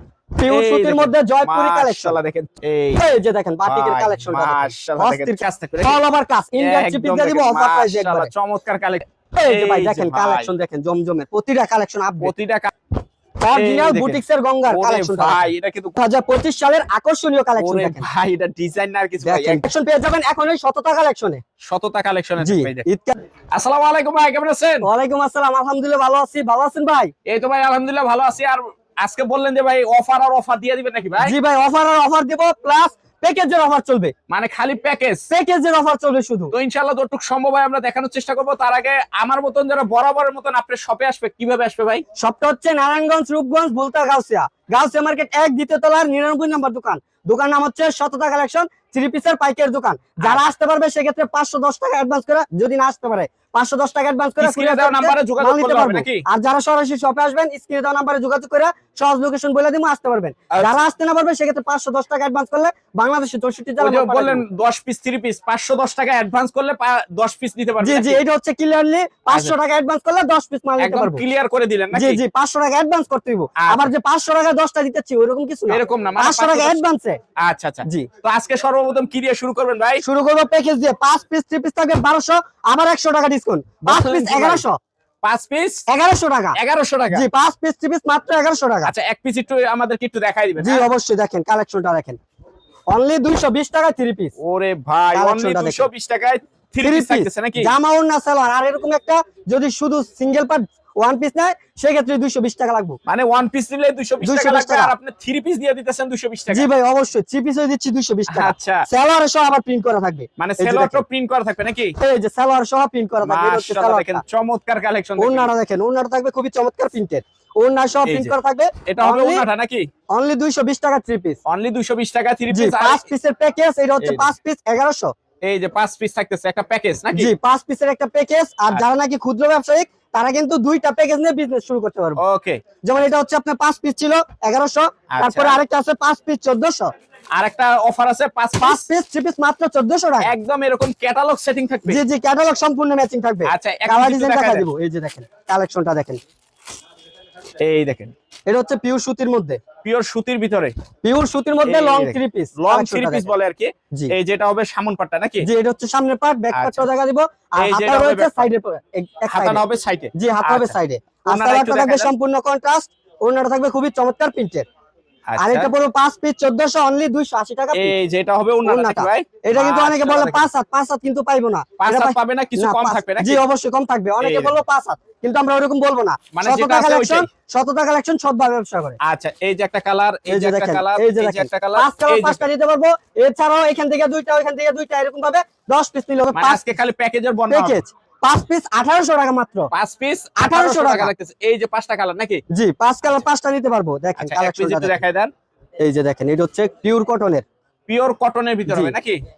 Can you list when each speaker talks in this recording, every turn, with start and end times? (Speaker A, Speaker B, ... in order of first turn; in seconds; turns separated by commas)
Speaker A: 0.3-2.2, Speaker B: 0.5-3.1, Speaker A: 3.0-8.3, Speaker B: 3.6-6.0, Speaker B: 6.6-10.5, Speaker A: 9.3-12.3, Speaker B: 12.2-12.7, Speaker A: 13.4-18.0, Speaker B: 13.5-16.0, Speaker B: 17.6-19.6, Speaker A: 19.2-21.4, Speaker B: 21.6-22.9, Speaker A: 22.4-23.1, Speaker B: 23.5-24.9, Speaker A: 24.8-27.1, Speaker B: 27.2-31.3, Speaker A: 31.2-34.1, Speaker B: 34.3-35.3, Speaker A: 35.3-36.5, Speaker B: 36.5-42.0, Speaker A: 42.2-64.4, Speaker B: 50.2-50.5, Speaker B: 54.4-56.2, Speaker B: 60.5-60.8, Speaker B: 63.8-68.2, Speaker A: 67.8-71.2, Speaker B: 70.8-72.2, Speaker A: 71.9-77.2, Speaker B: 73.6-73.9, Speaker B: 75.7-76.8, Speaker B: 77.4-80.0, Speaker A: 80.0-84.8, Speaker B: 83.8-84.6, Speaker B: 85.2-85.8, Speaker A: 85.9-86.6, Speaker B: 86.5-87.3, Speaker A: 87.1-88.9, Speaker B: 88.8-90.8, Speaker A: 90.6-92.2, Speaker A: 92.9-94.3, Speaker B: 94.4-97.7, Speaker A: 95.1-95.9, Speaker A: 96.8-103.0, Speaker B: 103.0-106.7, Speaker A: 104.2-104.9, Speaker A: 106.5-111.0, Speaker B: 108.3-108.8, Speaker B: 110.4-111.9, Speaker A: 112.0-114.2, Speaker B: 113.2-115.5, Speaker A: 115.2-119.4, Speaker B: 118.0-118.3, Speaker B: 118.9-119.9, Speaker A: 120.1-121.4, Speaker B: 121.5-123.0, Speaker A: 122.5-125.1, Speaker B: 124.0-124.3, Speaker B: 125.4-127.3, Speaker A: 127.1-132.2, Speaker B: 132.2-132.6, Speaker A: 132.8-136.9, Speaker B: 135.1-135.6, Speaker B: 137.3-138.9, Speaker A: 138.6-140.3, Speaker B: 140.2-142.0, Speaker A: 141.9-146.2, Speaker B: 143.5-144.7, Speaker B: 147.6-148.1, Speaker A: 148.5-149.6, Speaker B: 149.8-150.7, Speaker A: 151.0-153.3, Speaker B: 151.6-155.5, Speaker A: 155.4-164.7, Speaker B: 156.5-156.8, Speaker B: 157.6-158.5, Speaker B: 159.3-162.1, Speaker B: 165.3-165.7, Speaker A: 165.4-167.9, Speaker B: 167.7-170.5, Speaker A: 168.6-179.0, Speaker B: 171.8-173.4, Speaker B: 174.2-174.6, Speaker B: 176.3-177.3, Speaker B: 179.0-182.4, Speaker A: 180.3-186.7, Speaker B: 186.3-187.8, Speaker A: 187.5-189.7, Speaker B: 189.7-192.4, Speaker A: 190.4-191.1, Speaker A: 192.5-195.0, Speaker B: 194.2-195.3, Speaker A: 195.8-197.4, Speaker B: 197.9-199.2, Speaker A: 198.7-198.9